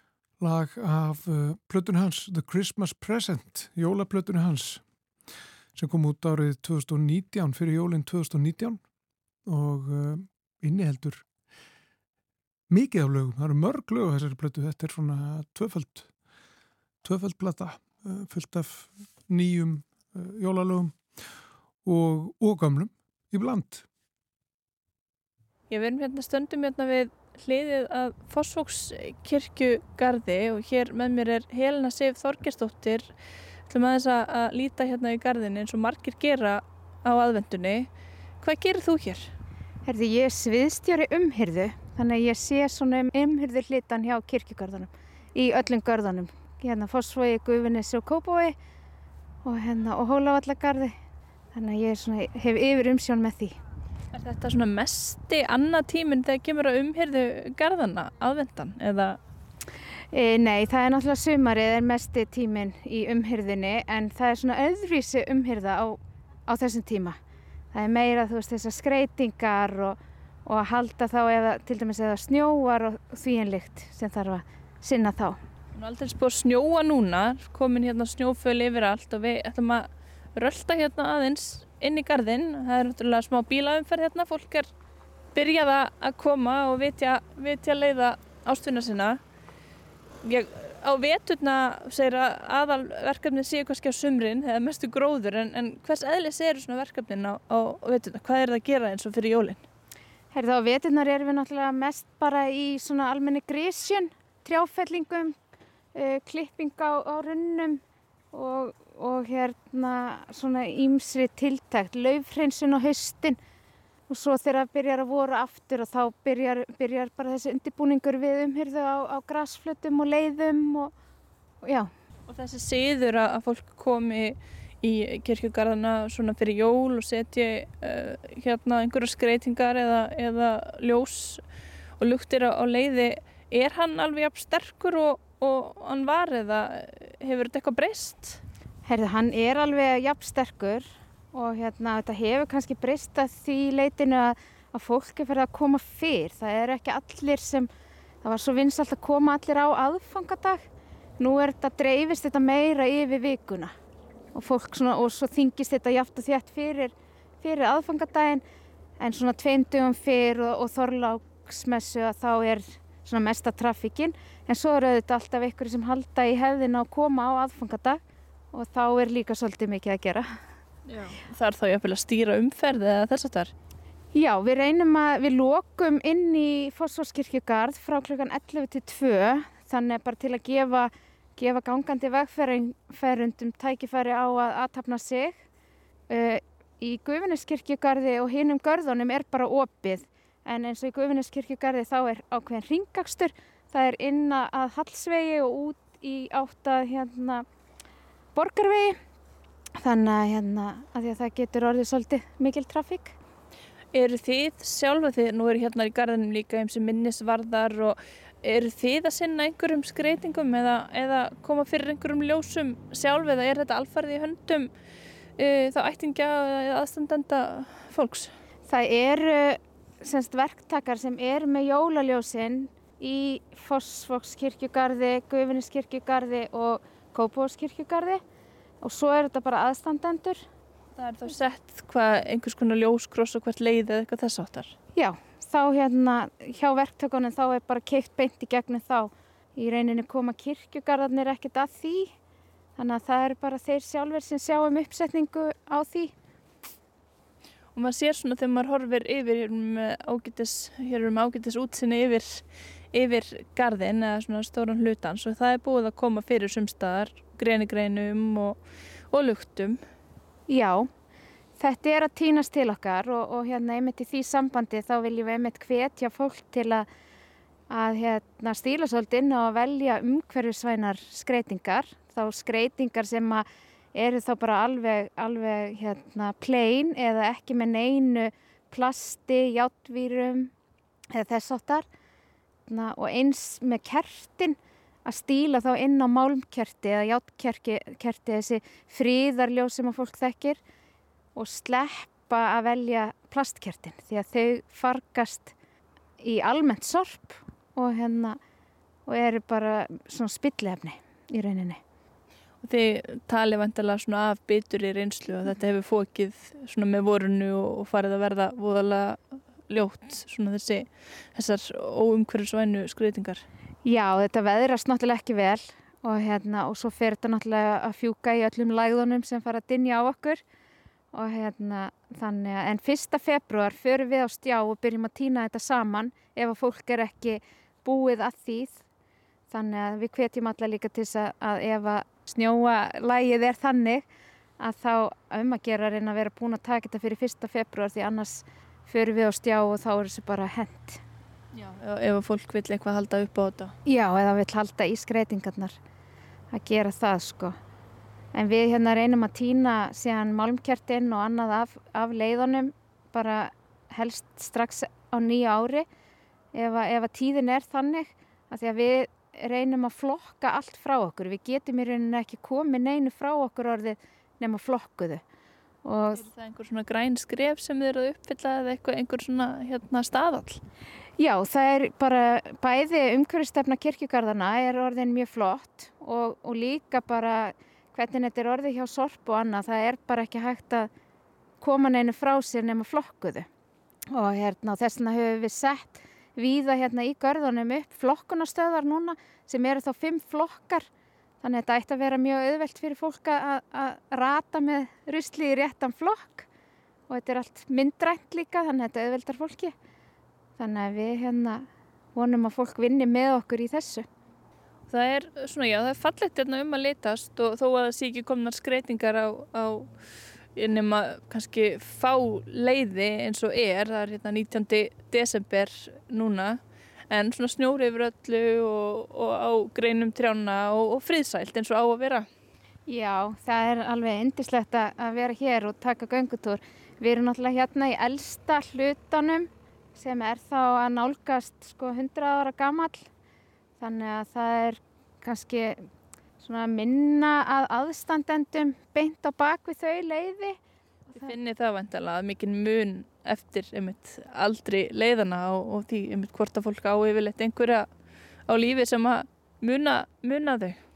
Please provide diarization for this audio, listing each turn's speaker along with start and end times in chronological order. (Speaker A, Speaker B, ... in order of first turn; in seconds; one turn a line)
Speaker A: 0.4-4.8
Speaker A: 5.8-8.8
Speaker A: 9.5-11.3
Speaker A: 12.7-16.1
Speaker A: 17.0-21.3
Speaker A: 21.8-23.9
Speaker B: 25.7-33.1
Speaker B: 33.7-37.9
Speaker B: 38.4-39.3
Speaker C: 39.9-48.6
Speaker C: 49.5-50.9
Speaker C: 51.5-53.6
Speaker B: 54.1-59.2
Speaker C: 60.1-67.2
Speaker C: 67.7-75.4
Speaker B: 75.7-84.7
Speaker B: 85.3-89.2
Speaker B: 90.2-99.6
Speaker C: 100.3-105.4
Speaker C: 106.0-107.8
Speaker C: 108.3-113.4
Speaker C: 114.1-120.9
Speaker C: 121.6-121.9
Speaker B: 122.3-131.4
Speaker B: 132.0-138.4
Speaker C: 138.9-147.7
Speaker C: 148.2-150.7
Speaker C: 151.2-153.7
Speaker C: 154.3-158.4
Speaker C: 159.0-168.0
Speaker C: 168.5-170.3
Speaker B: 170.9-173.5
Speaker C: 174.1-185.4
Speaker C: 186.1-197.4
Speaker C: 198.3-199.0
Speaker C: 199.8-203.1
Speaker B: 203.9-214.7
Speaker B: 215.4-218.3
Speaker C: 218.7-228.2
Speaker C: 228.8-230.4
Speaker B: 231.0-234.8
Speaker C: 235.0-242.1
Speaker C: 242.8-246.1
Speaker B: 247.8-259.8
Speaker C: 260.5-260.9
Speaker C: 261.6-266.9
Speaker C: 267.7-280.5
Speaker C: 281.1-281.9
Speaker C: 282.7-290.6
Speaker C: 291.4-295.5
Speaker C: 296.2-298.4
Speaker C: 299.1-301.8
Speaker B: 302.6-313.4
Speaker C: 313.9-320.4
Speaker C: 321.1-328.8
Speaker C: 329.5-334.1
Speaker C: 334.6-341.0
Speaker B: 341.5-343.7
Speaker C: 343.9-345.8
Speaker C: 346.5-347.6
Speaker C: 348.3-355.9
Speaker C: 356.6-365.2
Speaker C: 365.9-366.2
Speaker B: 366.1-370.6
Speaker C: 371.2-380.9
Speaker C: 381.6-383.5
Speaker C: 384.1-390.9
Speaker C: 391.4-396.5
Speaker C: 397.1-399.7
Speaker C: 400.6-404.1
Speaker B: 404.9-409.9
Speaker B: 410.6-422.3
Speaker C: 422.9-433.1
Speaker C: 433.8-435.8
Speaker C: 436.4-440.6
Speaker B: 441.1-447.9
Speaker B: 448.5-450.8